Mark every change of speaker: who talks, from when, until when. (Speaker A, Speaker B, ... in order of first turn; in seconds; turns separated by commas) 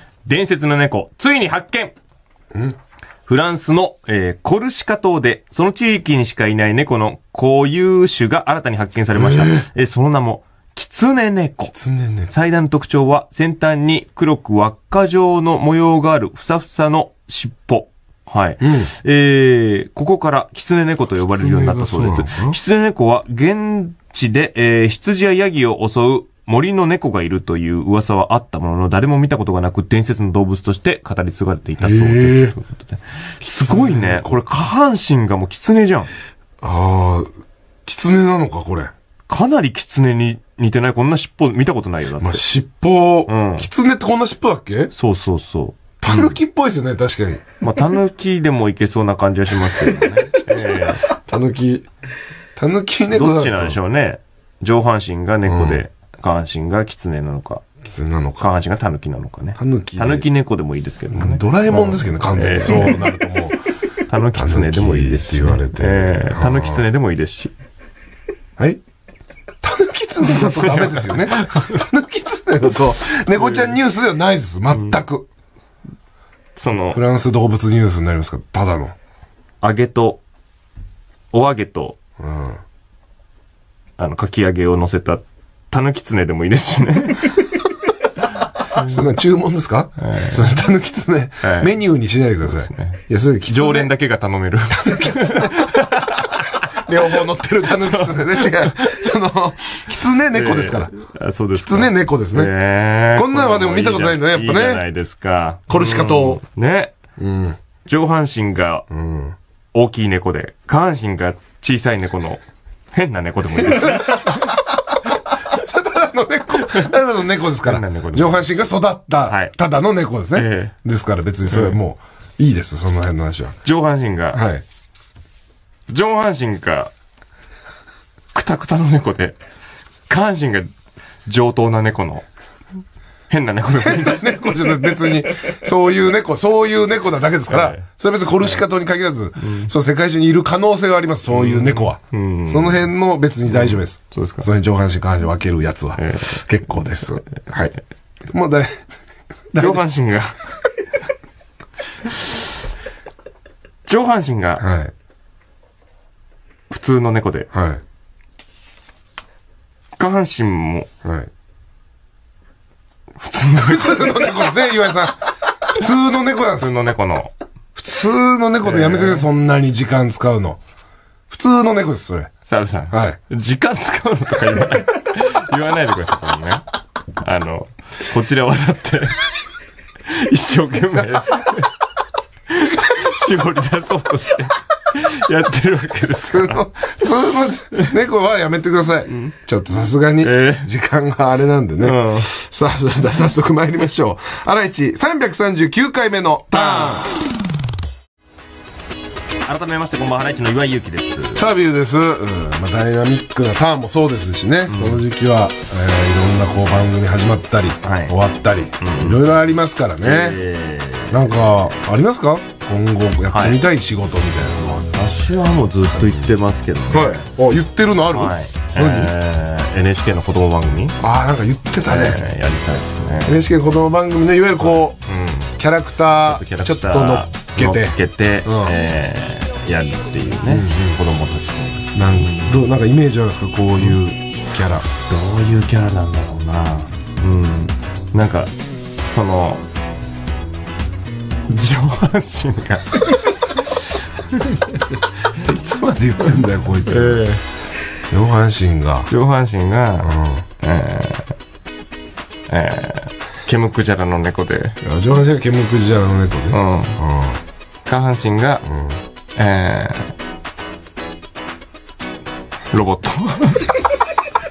Speaker A: 0.2-1.9, Speaker A: 3.2-11.7, Speaker B: 9.1-9.7, Speaker B: 11.6-12.3, Speaker A: 12.3-36.1, Speaker B: 18.6-18.9, Speaker B: 21.2-22.6, Speaker B: 31.8-32.5, Speaker B: 33.5-34.4, Speaker B: 36.6-37.3, Speaker B: 37.9-38.9, Speaker A: 39.3-42.4, Speaker B: 42.2-44.9, Speaker A: 43.3-43.7, Speaker A: 44.9-46.4, Speaker B: 46.0-47.4, Speaker A: 47.6-51.1, Speaker B: 49.6-51.9, Speaker B: 52.5-53.8, Speaker A: 53.1-57.6, Speaker B: 55.4-55.8, Speaker B: 57.8-58.5, Speaker A: 58.4-63.2, Speaker B: 59.6-60.3, Speaker B: 61.1-63.6, Speaker A: 64.0-67.5, Speaker B: 64.3-66.8, Speaker B: 69.6-75.3, Speaker A: 70.3-71.7, Speaker A: 73.3-73.8, Speaker A: 74.7-75.0, Speaker A: 76.5-77.0, Speaker B: 76.9-78.9, Speaker A: 79.6-80.2, Speaker A: 81.3-82.0, Speaker B: 82.2-82.6, Speaker A: 84.0-87.6, Speaker B: 88.8-93.9, Speaker A: 90.0-90.5, Speaker A: 91.4-91.7, Speaker A: 92.5-96.8, Speaker B: 94.7-100.9, Speaker A: 97.8-99.0, Speaker A: 100.3-106.9, Speaker B: 101.5-102.5, Speaker B: 103.1-104.8, Speaker B: 105.7-106.4, Speaker B: 107.2-107.6, Speaker A: 107.8-108.8, Speaker B: 108.9-109.3, Speaker A: 109.7-114.5, Speaker B: 113.6-123.6, Speaker A: 116.6-116.9, Speaker A: 117.4-118.6, Speaker A: 119.3-119.5, Speaker A: 120.3-120.7, Speaker A: 121.5-121.8, Speaker A: 123.6-124.4, Speaker B: 124.3-124.6, Speaker A: 125.9-126.9, Speaker A: 128.3-129.4, Speaker A: 130.1-130.7, Speaker A: 131.2-132.2, Speaker A: 133.3-135.2, Speaker B: 133.8-147.8, Speaker A: 137.5-137.8, Speaker A: 139.4-139.7, Speaker A: 141.3-142.9, Speaker A: 143.4-144.5, Speaker A: 146.0-146.4, Speaker B: 148.3-148.8, Speaker B: 149.5-149.8, Speaker A: 149.6-150.4, Speaker A: 152.0-152.4, Speaker A: 153.8-154.7, Speaker B: 154.6-154.9, Speaker A: 156.7-157.5, Speaker B: 157.5-157.8, Speaker A: 160.0-160.9, Speaker B: 161.0-161.3, Speaker A: 163.2-164.5, Speaker B: 163.6-166.7, Speaker A: 166.5-167.3, Speaker B: 167.7-170.6, Speaker A: 168.6-169.3, Speaker B: 171.3-172.3, Speaker A: 172.4-176.6, Speaker B: 172.9-173.2, Speaker A: 177.2-179.2, Speaker A: 180.0-181.7, Speaker B: 180.8-181.2, Speaker A: 182.5-186.7, Speaker B: 186.2-197.1, Speaker A: 190.2-190.7, Speaker A: 191.8-192.3, Speaker A: 196.5-197.1, Speaker A: 199.4-201.4, Speaker B: 201.3-210.4, Speaker A: 204.7-205.0, Speaker A: 207.8-208.1, Speaker A: 208.8-209.2, Speaker A: 210.0-211.8, Speaker B: 211.1-214.9, Speaker A: 213.3-213.6, Speaker A: 214.9-217.2, Speaker B: 216.9-219.1, Speaker A: 218.1-221.0, Speaker B: 221.0-222.2, Speaker A: 221.8-223.4, Speaker B: 223.2-225.0, Speaker A: 224.6-225.5, Speaker B: 225.6-228.8, Speaker A: 226.2-232.6, Speaker B: 230.5-231.0, Speaker B: 231.9-234.8, Speaker A: 235.0-239.7, Speaker A: 241.5-243.7, Speaker B: 244.7-247.3, Speaker A: 246.8-247.4, Speaker B: 248.1-249.1, Speaker A: 249.1-251.3, Speaker B: 250.0-250.4, Speaker A: 252.5-254.8, Speaker B: 254.8-257.4, Speaker A: 256.5-257.0, Speaker A: 257.9-258.6, Speaker B: 258.6-259.0, Speaker A: 259.4-260.1, Speaker A: 262.7-263.8